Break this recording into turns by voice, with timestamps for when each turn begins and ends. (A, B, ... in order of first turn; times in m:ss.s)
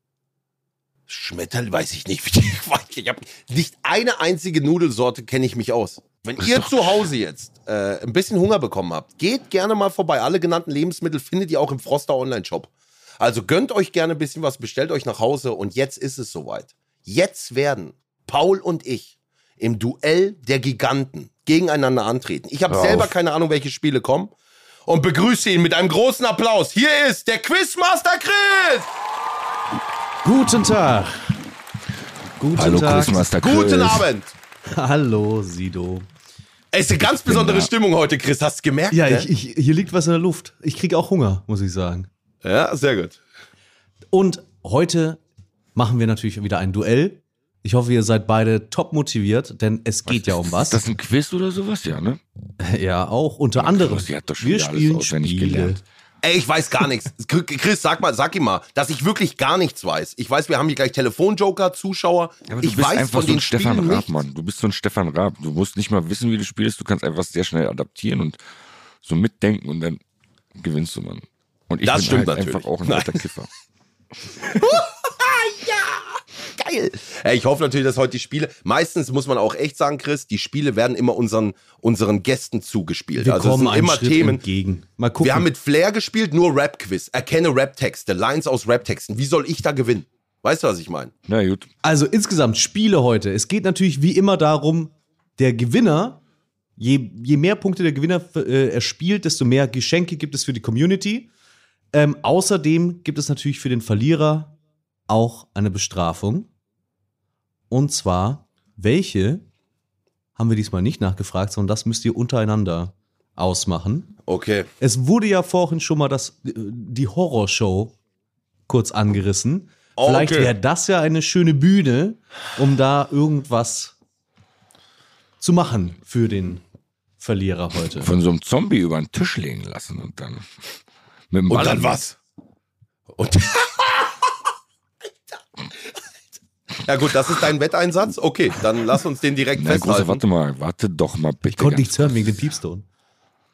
0:01.1-0:24.3 A
0:06.4-0:07.1 B
0:22.7-0:23.1 B
0:24.9-0:28.9 A
0:30.2-0:31.4 C
0:32.4-0:33.2 C
0:32.5-0:34.1 B
0:33.3-0:34.4 A
0:34.7-0:36.1 C
0:36.7-0:39.3 A
0:37.0-0:37.7 B
0:38.9-0:42.1 C
0:42.4-0:43.2 A
0:44.1-0:45.2 C
0:45.8-0:50.8 C
0:50.1-0:52.2 B
0:52.6-0:55.8 C
0:53.6-0:55.8 B
0:56.2-1:04.1 A
1:02.5-1:08.4 B
1:09.0-1:10.0 B
1:10.6-1:13.5 B
1:11.8-1:13.3 A
1:14.6-1:24.4 A
1:23.2-1:25.5 C
1:25.2-1:31.1 A
1:31.3-1:31.7 B
1:31.8-1:36.2 C
1:36.8-1:41.3 C
1:41.9-1:44.6 C
1:45.1-1:46.5 C
1:47.7-1:49.4 C
1:50.4-1:54.2 C
1:54.3-1:54.7 A
1:54.8-1:58.0 C
1:58.7-2:04.0 C
2:00.0-2:00.5 A
2:05.4-2:06.6 C
2:07.2-2:08.1 C
2:08.0-2:10.5 B
2:11.3-2:12.0 B
2:11.5-2:12.2 A
2:13.2-2:14.2 A
2:16.8-2:20.2 A
2:19.6-2:22.4 B
2:21.5-2:22.8 C